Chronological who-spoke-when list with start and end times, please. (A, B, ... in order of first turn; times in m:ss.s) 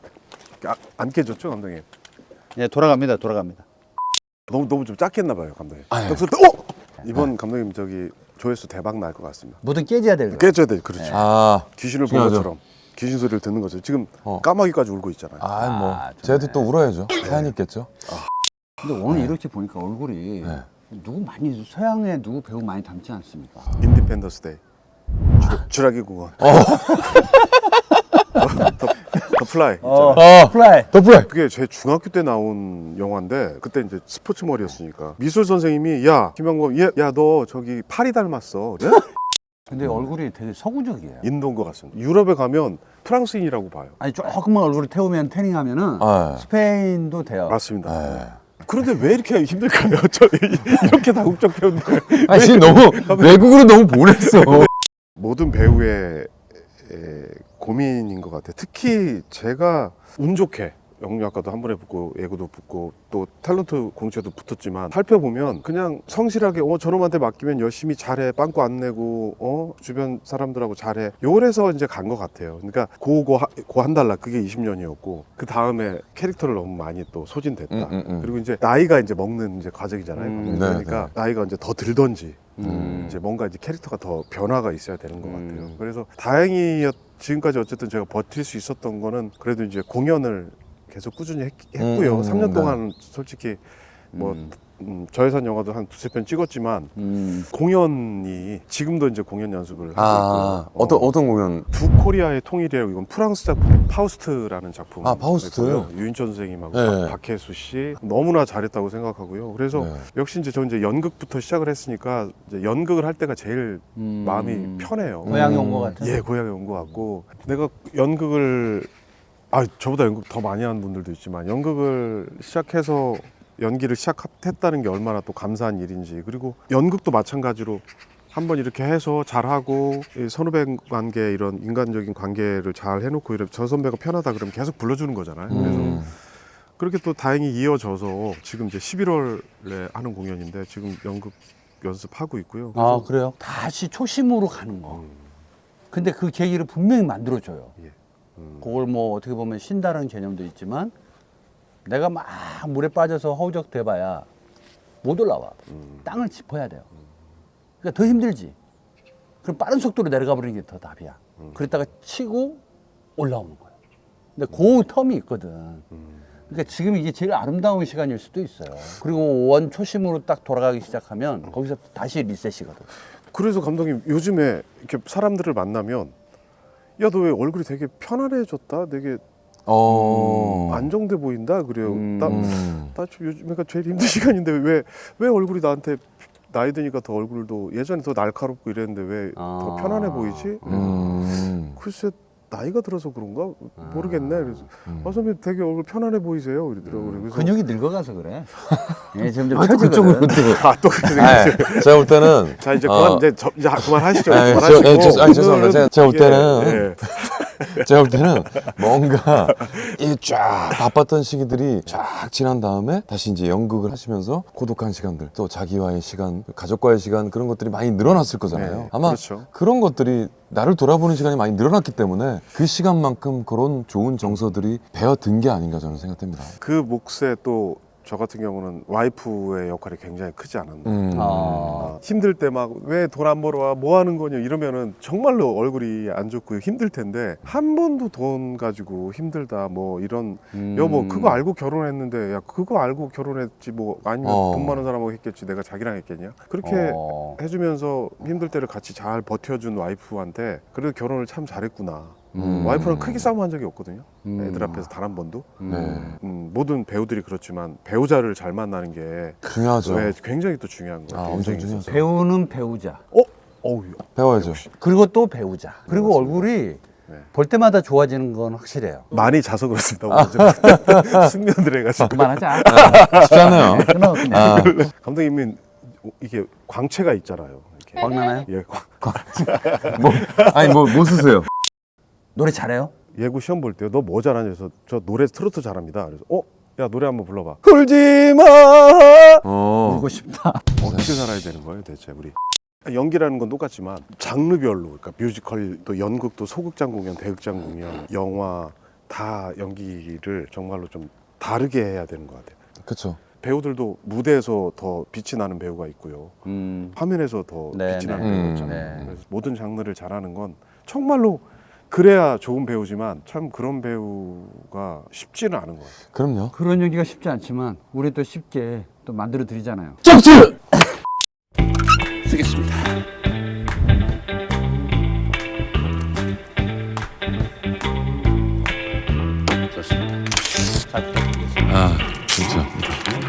0:00.6-0:01.8 A
0:02.6-0:03.6 B
0:04.5-0:09.6 A
0:05.9-0:06.2 C
0:09.6-0:11.2 B
0:10.3-0:15.5 A
0:11.1-0:12.5 C
0:15.4-0:17.9 C
0:15.6-0:16.7 B
0:17.2-0:17.5 A
0:18.8-0:23.7 B
0:23.8-0:24.6 A
0:25.4-0:26.9 A
0:26.4-0:27.6 C
0:28.4-0:30.3 A
0:29.8-0:30.9 B
0:30.1-0:31.3 C
0:31.2-0:39.1 A
0:39.7-0:41.2 B
0:41.2-0:44.0 A
0:44.0-0:47.6 B
0:46.0-0:46.4 C
0:47.5-0:53.5 A
0:47.8-0:48.4 C
0:52.2-0:54.7 C
0:54.4-1:37.0 A
1:17.7-1:18.3 C
1:20.2-1:20.8 B
1:20.4-1:21.1 C
1:22.6-1:23.2 B
1:22.6-1:23.1 C
1:25.2-1:25.8 B
1:31.8-1:32.8 C
1:34.1-1:34.5 B
1:37.0-1:37.5 B
1:37.5-1:41.1 A
1:40.0-1:41.7 C
1:41.7-1:58.9 A
1:45.0-1:45.9 C
1:46.7-1:47.2 C
1:49.7-1:50.0 C
1:54.0-1:56.2 B
1:55.2-1:56.0 C
1:59.5-2:16.1 A
2:15.5-2:16.1 C
2:15.5-2:16.0 B
2:16.8-2:23.1 A
2:22.8-2:25.0 B
2:24.9-2:25.2 A
2:25.9-2:27.7 B
2:27.8-2:28.7 A
2:28.6-2:30.9 B
2:31.8-2:34.3 B
2:35.0-2:36.9 B
2:37.8-2:38.6 B
2:39.4-2:42.6 B
2:43.2-2:43.7 B
2:44.4-2:45.8 B
2:46.5-2:52.9 B
2:53.3-2:56.1 A
2:57.0-2:59.2 A
2:59.7-3:00.9 C
2:59.8-3:17.6 A
3:01.8-3:02.5 B
3:02.2-3:02.9 C
3:09.4-3:11.1 B
3:10.6-3:11.8 C
3:13.8-3:14.7 B
3:14.9-3:15.1 C
3:17.0-3:20.5 B
3:18.7-3:46.6 C
3:20.3-3:28.9 A
3:29.5-3:30.0 A
3:38.5-3:39.5 A
3:46.6-3:51.1 A
3:50.8-3:51.9 C
3:51.1-3:51.9 B
3:51.7-4:22.1 A
4:00.5-4:01.4 B
4:04.2-4:04.8 C
4:06.6-4:07.4 B
4:12.3-4:12.7 B
4:12.4-4:13.3 C
4:14.2-4:14.9 B
4:15.6-4:16.2 B
4:15.7-4:16.2 C
4:19.4-4:20.1 C
4:21.1-4:22.0 C
4:21.9-4:23.0 B
4:23.1-4:24.7 A
4:24.2-4:24.6 C
4:24.8-4:26.8 B
4:25.9-4:26.5 A
4:27.3-4:29.1 B
4:29.1-4:41.4 A
4:30.1-4:31.3 C
4:32.0-4:34.8 B
4:32.6-4:34.9 C
4:38.0-4:38.5 B
4:39.0-4:41.5 C
4:42.4-4:42.9 B
4:43.1-4:49.4 A
4:49.4-4:50.1 C
4:49.8-4:50.7 B
4:50.8-5:02.6 A
4:50.8-4:51.1 C
5:02.8-5:03.2 C
5:03.4-5:06.4 A
5:06.5-5:07.0 B
5:06.9-5:16.0 A
5:07.7-5:09.1 B
5:08.2-5:09.1 C
5:16.1-5:16.5 C
5:16.5-5:20.6 B
5:22.2-5:22.9 B
5:29.7-5:31.8 B
5:31.7-5:33.0 C